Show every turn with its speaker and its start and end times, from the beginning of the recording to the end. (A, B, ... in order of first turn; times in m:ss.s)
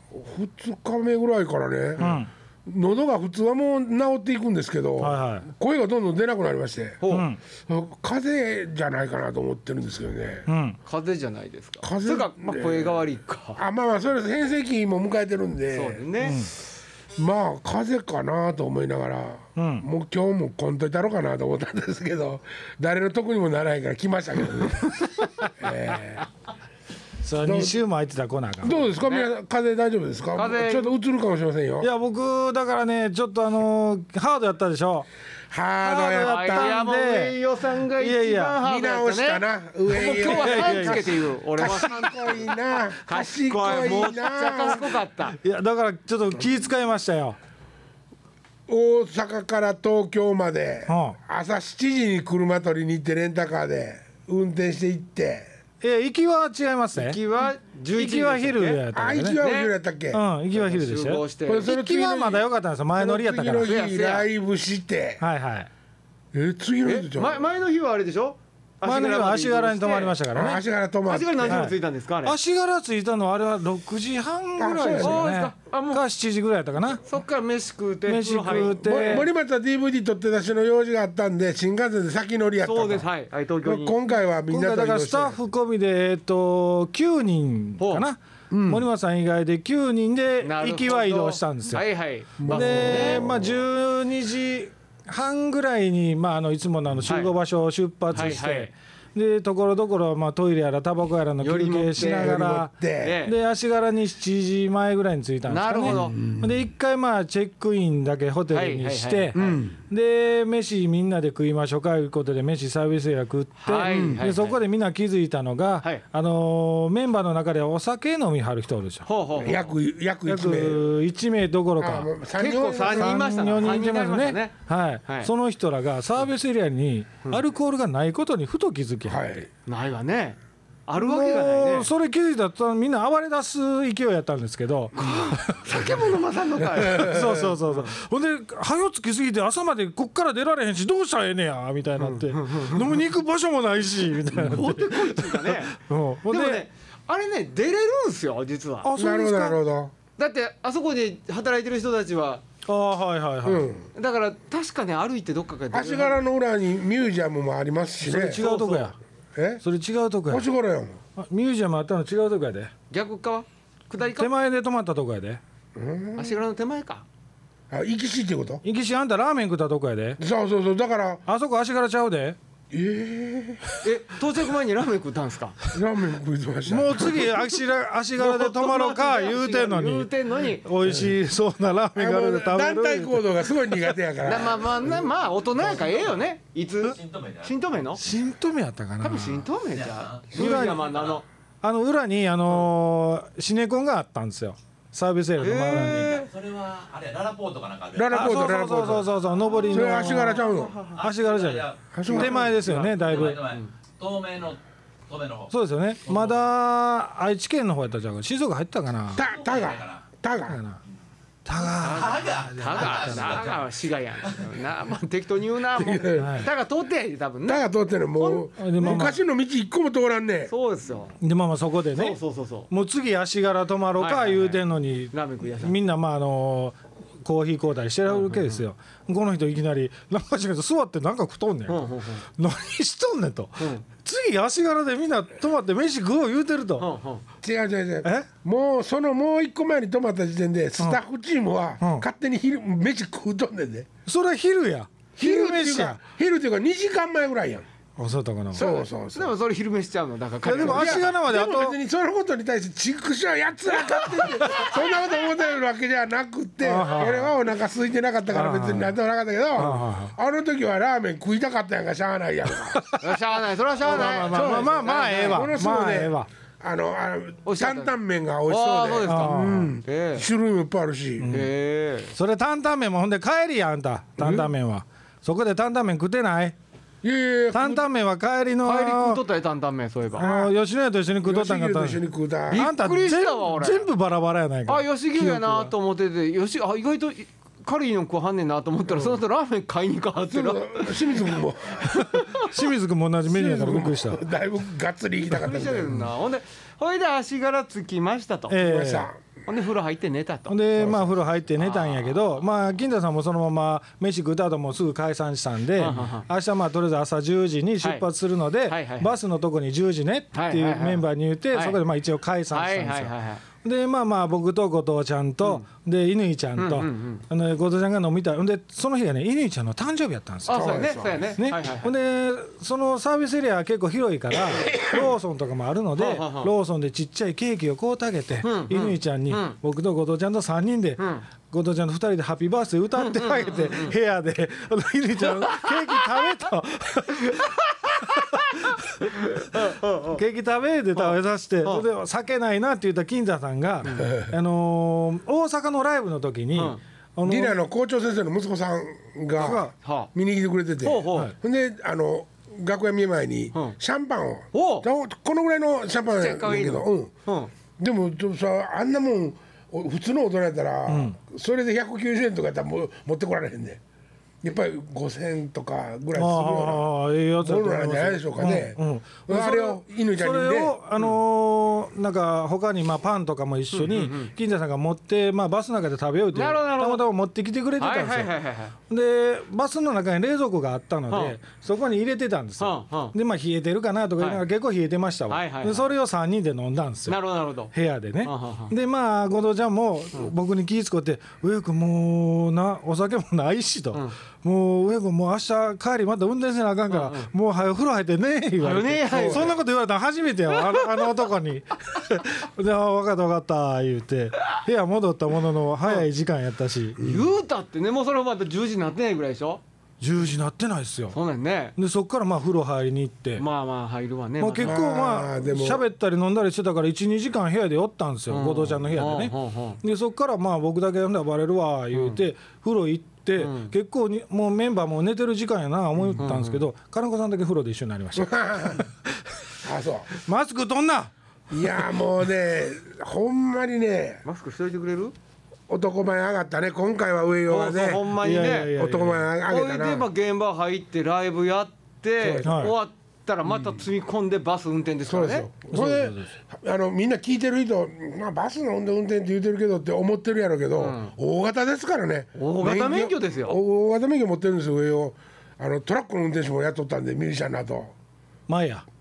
0:00.1-0:07.0 A
0:02.0-0:02.3 B
0:05.0-0:05.5 B
0:07.0-0:07.3 C
0:07.1-0:07.4 B
0:07.7-0:10.5 A
0:10.5-0:10.8 B
0:10.9-0:13.6 C
0:11.8-0:13.0 A
0:13.6-0:16.0 A
0:15.7-0:16.5 C
0:16.2-0:16.5 B
0:17.2-0:26.3 A
0:19.6-0:19.9 B
0:25.2-0:25.5 C
0:27.2-0:28.9 B
0:27.4-0:27.8 A
0:28.6-0:31.9 A
0:29.0-0:29.3 C
0:30.3-0:30.9 C
0:31.8-0:35.1 B
0:35.5-0:36.7 A
0:35.8-0:37.4 B
0:35.8-0:42.5 C
0:38.0-0:38.6 B
0:38.6-0:45.0 A
0:40.0-0:41.1 B
0:43.0-0:45.4 C
0:43.6-0:44.0 B
0:45.3-0:47.4 B
0:48.7-0:55.5 A
0:50.9-0:51.2 B
0:55.8-0:57.2 B
0:56.9-0:58.8 C
0:57.9-0:59.4 B
0:58.9-1:00.2 A
0:59.4-0:59.7 C
1:00.1-1:03.7 B
1:00.5-1:01.7 C
1:01.5-1:05.2 A
1:03.6-1:04.3 C
1:05.2-1:05.7 B
1:06.3-1:07.5 A
1:06.8-1:10.2 C
1:08.8-1:10.6 B
1:10.3-1:11.7 A
1:11.1-1:12.4 C
1:11.5-1:17.0 B
1:14.6-1:15.2 A
1:15.0-1:16.0 C
1:17.0-1:19.2 C
1:18.1-1:19.3 B
1:18.6-1:23.1 A
1:22.6-1:24.0 C
1:23.6-1:25.4 A
1:24.5-1:31.9 B
1:27.8-1:28.1 C
1:28.5-1:28.8 A
1:30.4-1:33.3 C
1:32.4-1:33.6 A
1:32.5-1:59.1 B
1:37.1-1:37.4 C
1:38.1-1:38.7 C
1:41.4-1:43.4 C
1:42.0-1:43.2 A
1:45.5-1:46.2 C
1:45.9-1:46.6 A
1:48.5-1:49.7 C
1:49.4-1:49.7 A
1:53.6-1:54.6 C
1:53.8-1:54.3 A
1:59.1-1:59.6 C
1:59.4-2:00.9 A
2:00.3-2:09.2 B
2:01.8-2:03.3 A
2:02.4-2:04.5 C
2:05.0-2:05.3 C
2:09.1-2:09.5 A
2:09.7-2:11.9 C
2:11.0-2:16.0 B
2:14.9-2:17.2 C
2:16.7-2:17.6 A
2:16.8-2:26.6 B
2:22.0-2:22.8 C
2:24.3-2:25.8 C
2:26.3-2:28.9 C
2:28.8-2:29.6 B
2:29.0-2:29.9 A
2:30.2-2:32.4 C
2:32.7-2:33.7 B
2:33.4-2:33.9 A
2:34.0-2:36.2 C
2:35.7-2:38.4 A
2:38.0-2:39.0 B
2:38.2-2:38.9 C
2:39.4-2:39.6 A
2:39.6-2:40.5 B
2:40.3-2:41.0 A
2:41.2-2:42.7 B
2:42.9-2:44.3 C
2:44.2-2:45.4 B
2:45.8-2:46.4 A
2:46.2-2:47.1 C
2:47.7-2:48.6 A
2:48.6-2:50.2 B
2:50.2-2:51.2 A
2:51.3-2:52.4 B
2:52.7-2:53.8 A
2:53.8-2:55.6 C
2:55.7-2:57.3 A
2:56.7-3:04.0 B
2:58.2-3:00.7 C
3:02.0-3:05.8 A
3:04.2-3:08.0 C
3:05.6-3:06.2 D
3:06.8-3:07.8 D
3:08.0-3:09.5 B
3:09.0-3:11.2 C
3:09.7-3:11.2 D
3:10.3-3:10.8 B
3:11.6-3:16.2 B
3:15.4-3:16.3 C
3:15.6-3:18.3 D
3:18.0-3:19.1 A
3:18.1-3:23.4 B
3:19.5-3:21.0 C
3:19.7-3:20.8 A
3:20.8-3:21.8 D
3:21.9-3:22.6 A
3:22.1-3:23.7 C
3:22.7-3:25.5 D
3:25.5-3:29.2 B
3:26.1-3:26.4 D
3:29.1-3:30.6 A
3:29.2-3:30.0 D
3:30.5-3:30.8 B
3:31.4-3:33.5 B
3:31.8-3:34.6 D
3:31.8-3:37.7 C
3:35.8-3:36.5 A
3:36.2-3:36.5 B
3:37.5-3:40.5 A
3:38.2-3:39.2 B
3:40.5-3:41.2 C
3:41.2-3:42.2 B
3:41.9-3:42.7 C
3:42.7-3:56.9 B
3:44.0-3:44.6 C
3:45.1-3:45.8 C
3:48.1-3:48.6 C
3:51.7-3:52.3 C
3:53.6-3:53.8 C
3:56.8-3:57.2 C
3:57.4-4:03.9 A
3:58.0-3:58.3 B
4:01.8-4:02.1 B
4:04.1-4:06.0 B
4:05.2-4:07.7 A
4:08.0-4:08.7 B
4:08.5-4:09.3 A
4:08.6-4:11.1 C
4:10.4-4:11.8 B
4:10.5-4:22.9 A
4:14.2-4:14.5 C
4:16.6-4:17.4 B
4:16.8-4:17.3 C
4:18.3-4:19.0 B
4:19.6-4:20.1 B
4:22.5-4:23.3 B
4:23.0-4:25.5 C
4:23.8-4:26.3 B
4:23.8-4:31.3 A
4:27.4-4:27.9 C
4:28.5-4:30.3 C
4:29.1-4:29.8 B
4:31.2-4:31.5 B
4:31.3-4:32.1 C
4:32.1-4:36.6 B
4:34.2-4:34.5 A
4:37.0-4:37.8 A
4:37.5-4:39.2 B
4:38.6-4:40.3 C
4:40.1-4:45.7 B
4:40.2-4:40.5 A
4:41.2-4:42.7 A
4:42.5-4:43.9 C
4:44.7-4:52.6 C
4:50.3-4:52.1 A
4:52.0-4:54.2 B
4:53.3-4:56.0 A
4:55.3-4:58.6 C
4:58.5-4:59.1 B
4:58.6-4:59.4 A
4:59.4-5:00.6 C
5:00.5-5:37.6 B
5:00.8-5:01.2 A
5:01.6-5:02.2 C
5:05.8-5:06.3 C
5:07.8-5:08.1 C
5:08.7-5:09.2 C
5:10.3-5:11.8 C
5:12.5-5:13.4 C
5:16.6-5:17.2 C
5:20.5-5:21.9 C
5:20.5-5:21.3 A
5:24.4-5:25.1 A
5:26.0-5:26.5 C
5:28.4-5:29.6 C
5:31.0-5:31.3 C
5:33.0-5:34.0 C
5:35.4-5:36.0 C
5:37.4-5:38.3 C
5:38.1-5:47.6 B
5:39.0-5:40.2 C
5:41.0-5:41.9 C
5:43.8-5:44.1 C
5:44.0-5:44.3 A
5:46.5-5:46.8 C
5:47.3-5:57.1 A
5:49.4-5:49.7 B
5:49.8-5:50.1 C
5:50.8-5:51.3 C
5:54.5-5:54.9 C
5:56.1-5:57.5 C
5:57.8-6:03.8 A
6:00.9-6:01.2 B
6:04.4-6:06.9 A
6:06.2-6:18.3 B
6:07.4-6:10.7 A
6:13.7-6:14.3 C
6:16.3-6:17.1 C
6:17.8-6:18.8 C
6:18.9-6:47.0 B
6:21.1-6:21.4 C
6:22.6-6:23.2 C
6:25.3-6:25.9 C
6:27.1-6:28.8 C
6:36.9-6:37.3 C
6:38.6-6:39.6 C
6:39.1-6:39.5 A
6:47.0-6:49.6 C
6:50.0-6:51.2 B
6:51.1-6:51.8 C
6:51.8-6:53.4 B
6:53.4-6:54.9 C
6:54.4-7:09.4 B
6:54.6-6:55.8 A
6:58.3-6:59.8 C
7:01.9-7:02.2 C
7:03.4-7:03.7 C
7:06.2-7:06.6 C
7:08.2-7:08.8 A
7:09.6-7:10.1 A
7:10.2-7:11.8 B
7:11.5-7:14.2 A
7:14.2-7:15.1 C
7:15.7-7:20.1 A
7:17.5-7:18.8 C
7:18.2-7:19.3 B
7:19.5-7:25.5 C
7:22.2-7:22.8 A
7:22.4-7:22.8 B
7:23.5-7:23.8 A
7:25.1-7:37.9 A
7:25.7-7:26.3 B
7:30.8-7:31.1 C
7:32.4-7:33.6 C
7:38.5-7:38.8 B